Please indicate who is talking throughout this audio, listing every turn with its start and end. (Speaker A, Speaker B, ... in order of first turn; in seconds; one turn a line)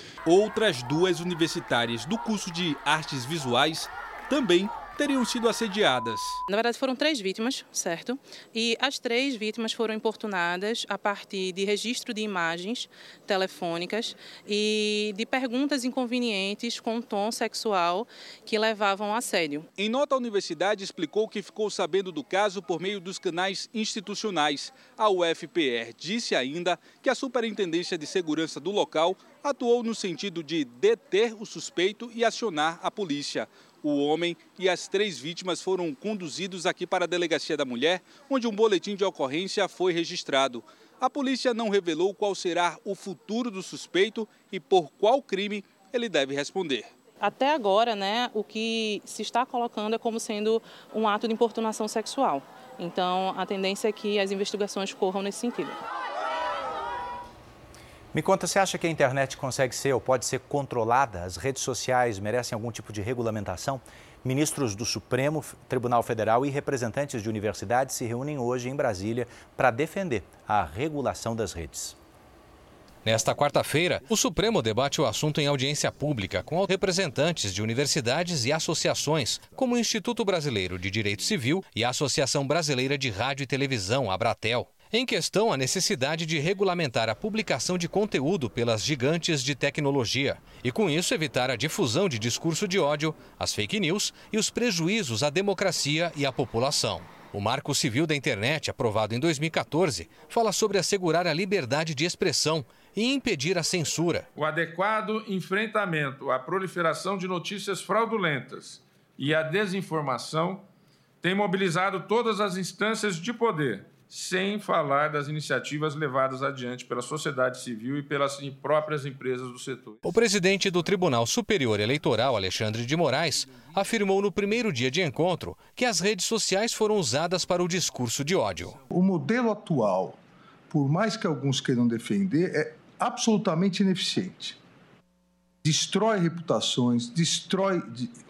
Speaker A: 0.3-6.4
Speaker B: 6.5-19.7
Speaker A: 19.8-46.9
Speaker B: 47.2-55.8
Speaker C: 58.1-72.0
Speaker D: 73.0-104.3
Speaker E: 104.4-110.7
Speaker E: 111.2-120.0
Speaker D: 120.0-128.8
Speaker F: 128.9-130.2
Speaker F: 130.7-134.6
Speaker F: 135.7-138.1